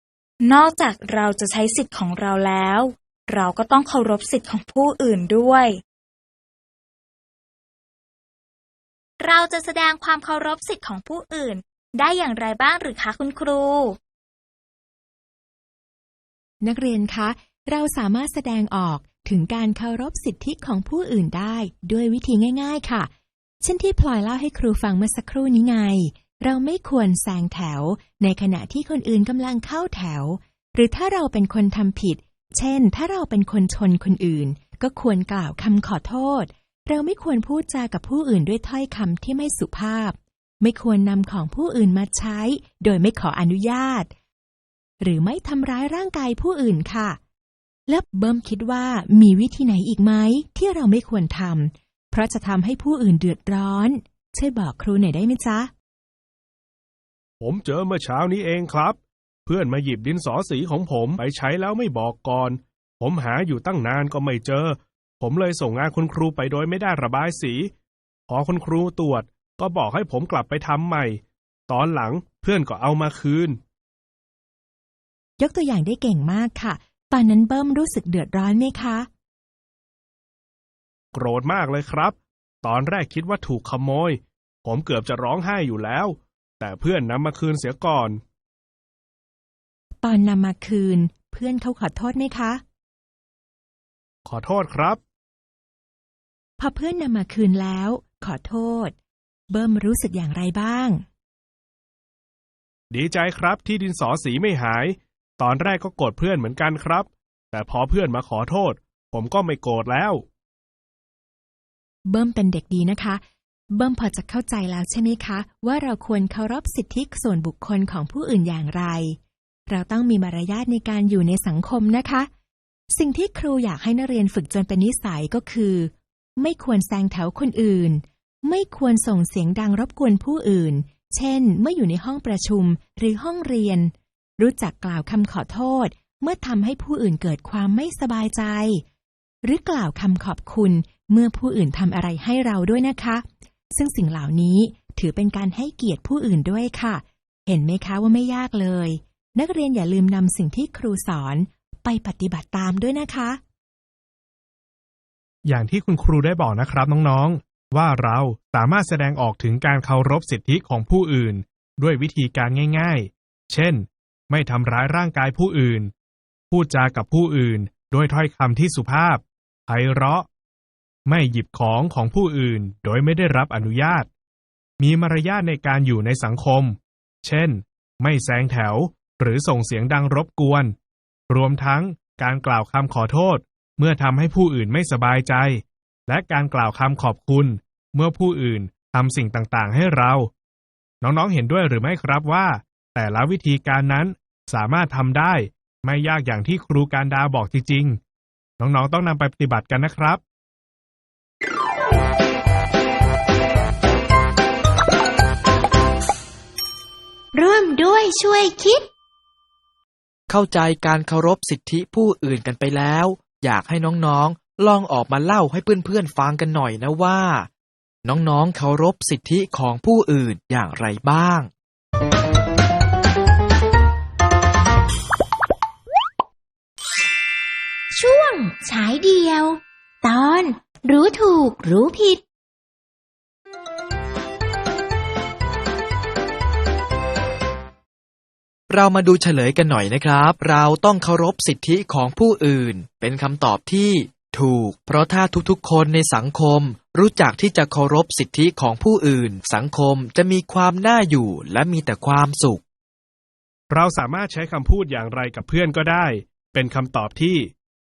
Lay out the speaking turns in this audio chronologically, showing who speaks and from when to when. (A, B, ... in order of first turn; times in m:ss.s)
0:00.4-0:05.8 A
0:09.2-0:14.0 A
0:16.6-0:23.1 B
0:23.6-0:44.1 B
0:45.0-0:47.2 B
0:47.9-0:55.7 B
0:57.4-1:07.7 C
1:08.3-1:13.6 C
1:15.4-1:19.1 B
1:21.1-1:28.2 C
1:30.0-1:32.6 B
1:34.2-1:35.0 C
1:36.6-1:39.0 B
1:39.5-1:41.0 B
1:42.9-1:50.2 C
1:52.1-1:53.2 B
1:53.7-2:02.3 B
2:02.9-2:18.8 B
2:19.4-2:33.4 B
2:35.4-2:45.9 C
2:46.5-2:50.3 C
2:51.1-2:54.1 C
2:54.8-3:00.8 C
3:01.3-3:10.3 C
3:11.0-3:18.0 C
3:18.6-3:20.2 C
3:27.3-3:28.9 D
3:30.3-3:37.5 E
3:38.0-3:41.5 E
3:48.0-3:52.2 D
3:58.7-4:12.6 E
4:13.7-4:17.5 C